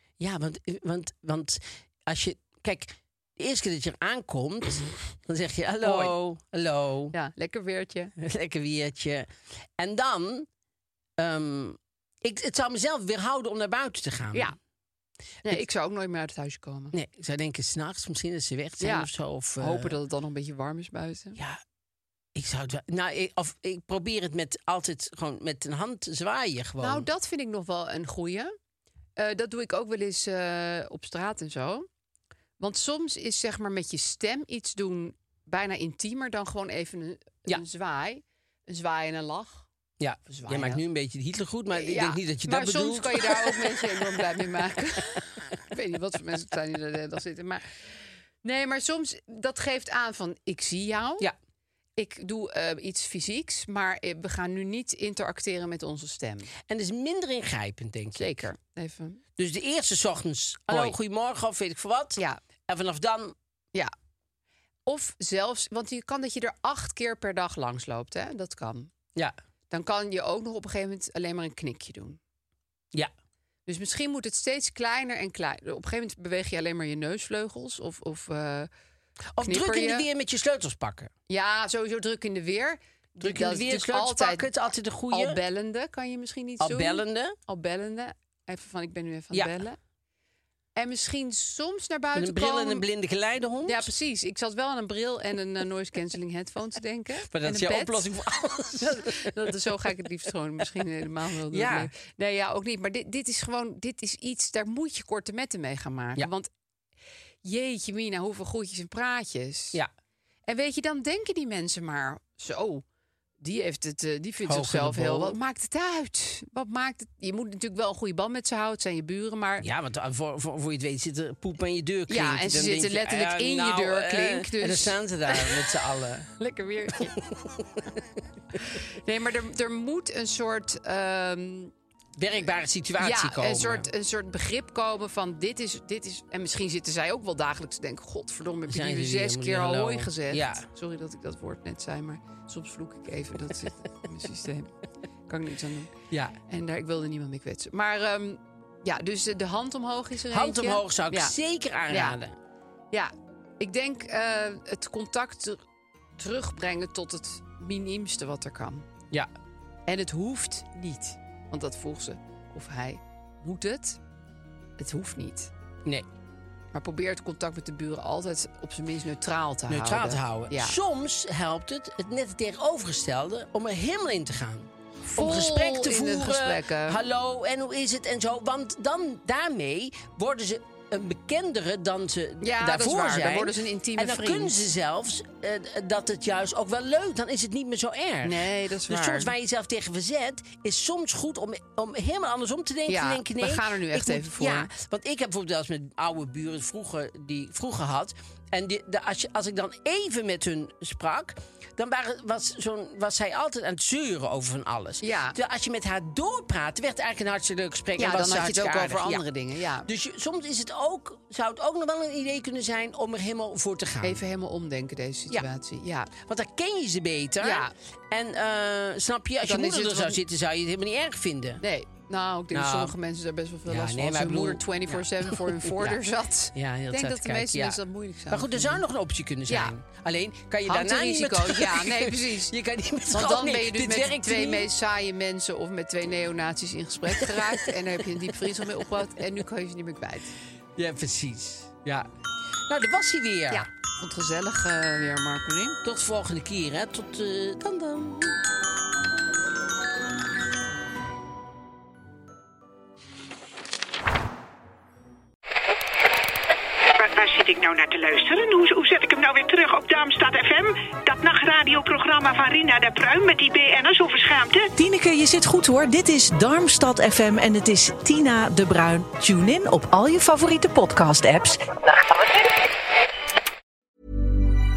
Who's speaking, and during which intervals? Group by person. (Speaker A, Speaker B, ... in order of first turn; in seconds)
Speaker A: 0.2-7.2, 8.2-10.5, 11.2-14.5, 16.9-19.9, 22.4-27.1, 40.0-44.1, 56.7-58.4, 59.4-63.4, 79.3-81.1, 83.2-85.4, 86.6-87.4, 89.3-89.6, 92.2-93.9, 97.3-99.5, 101.5-101.9, 114.5-115.4, 119.6-126.3, 127.0-128.0, 132.2-133.9, 138.7-140.7, 146.1-146.4, 150.3-152.4, 169.7-209.2, 209.9-214.2, 216.1-221.6, 222.5-222.9, 223.7-226.0, 226.5-227.8, 228.3-234.7, 237.1-237.7, 238.3-238.8, 240.8-242.1, 242.7-243.7, 245.8-248.4
Speaker B: 5.8-6.1, 7.1-8.1, 15.4-16.9, 18.8-21.4, 26.8-28.5, 29.2-31.9, 32.6-39.7, 40.3-40.8, 41.7-47.7, 48.4-51.3, 52.0-56.5, 58.1-59.2, 60.7-61.0, 64.9-68.9, 69.7-72.2, 73.7-78.7, 79.4-80.1, 81.3-84.5, 85.1-89.8, 90.8-92.8, 93.7-98.1, 98.8-106.5, 107.4-109.8, 110.5-112.8, 113.4-119.7, 122.1-125.7, 126.3-127.2, 128.6-131.7, 133.0-144.7, 145.3-145.9, 146.5-151.3, 151.9-152.2, 152.9-155.6, 156.2-158.9, 159.9-164.0, 164.8-165.5, 166.7-170.8, 175.1-177.0, 182.4-184.6, 188.2-189.3, 192.9-194.7, 205.0-205.4, 208.0-209.9, 214.0-216.1, 217.4-217.7, 219.4-220.2, 221.6-228.8, 229.5-229.7, 230.7-232.5, 233.1-240.4, 243.5-245.8
Speaker C: 257.0-264.7
Speaker D: 264.8-272.6